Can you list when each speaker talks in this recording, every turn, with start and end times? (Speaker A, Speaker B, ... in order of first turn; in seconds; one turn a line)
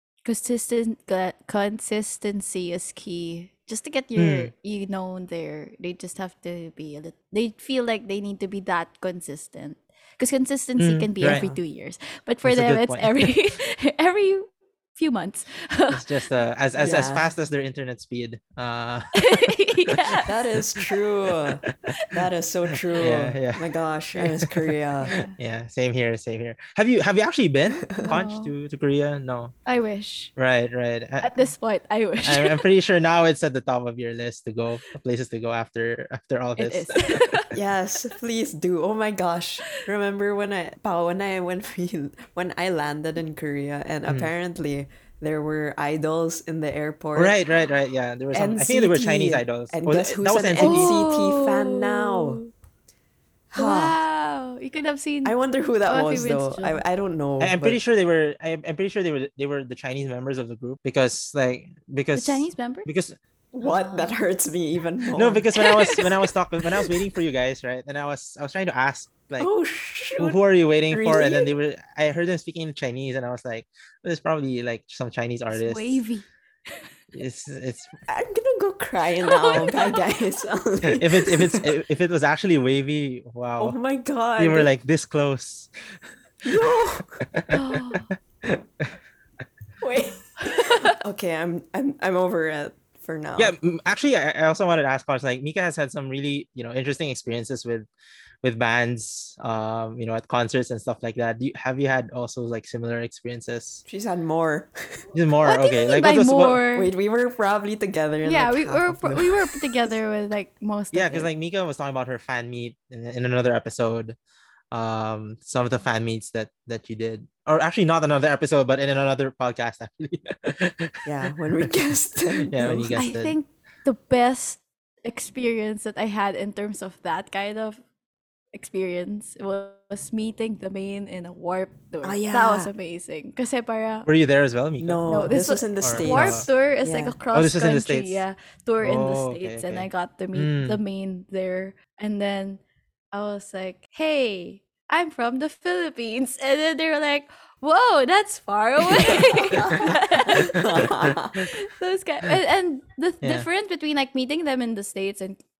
Speaker A: 0.2-16.2
Speaker B: 4.2-4.5
Speaker B: 10.8-11.4
Speaker C: 11.2-11.6
Speaker B: 12.4-13.1
Speaker B: 15.9-19.2
Speaker C: 16.8-17.3
Speaker A: 19.2-20.3
Speaker B: 19.9-20.1
Speaker C: 20.2-25.1
Speaker B: 23.0-29.5
Speaker A: 25.0-25.3
Speaker C: 27.9-28.2
Speaker A: 28.0-28.5
Speaker A: 29.6-30.3
Speaker B: 30.4-31.3
Speaker A: 31.2-32.6
Speaker B: 32.2-37.3
Speaker A: 36.6-37.5
Speaker C: 37.5-47.3
Speaker B: 47.1-50.9
Speaker C: 48.3-52.4
Speaker A: 50.6-52.5
Speaker C: 53.5-54.0
Speaker A: 53.5-56.8
Speaker C: 55.2-57.8
Speaker B: 57.4-63.1
Speaker A: 62.1-62.9
Speaker C: 63.5-65.5
Speaker A: 63.6-64.2
Speaker B: 65.2-69.5
Speaker A: 65.6-66.0
Speaker C: 69.4-71.5
Speaker B: 70.2-76.0
Speaker A: 75.5-76.8
Speaker B: 77.1-77.9
Speaker C: 78.1-81.7
Speaker A: 79.2-80.0
Speaker B: 80.8-83.8
Speaker C: 83.6-84.7
Speaker B: 84.4-85.7
Speaker C: 86.4-87.2
Speaker B: 87.3-88.9
Speaker A: 87.5-88.1
Speaker C: 89.8-93.5
Speaker A: 90.4-91.0
Speaker B: 93.4-97.9
Speaker B: 98.4-103.8
Speaker C: 103.8-105.1
Speaker B: 105.1-106.6
Speaker A: 105.4-106.9
Speaker C: 106.7-110.0
Speaker A: 108.2-111.3
Speaker B: 110.9-114.1
Speaker B: 114.7-121.0
Speaker C: 121.0-123.1
Speaker B: 122.4-123.3
Speaker A: 123.0-127.8
Speaker A: 128.5-134.1
Speaker C: 132.0-132.7
Speaker B: 134.1-136.5
Speaker C: 134.8-137.2
Speaker A: 135.1-142.6
Speaker B: 137.3-138.2
Speaker B: 138.8-140.8
Speaker A: 143.1-150.8
Speaker C: 149.6-151.4
Speaker A: 151.4-155.4
Speaker B: 153.2-153.5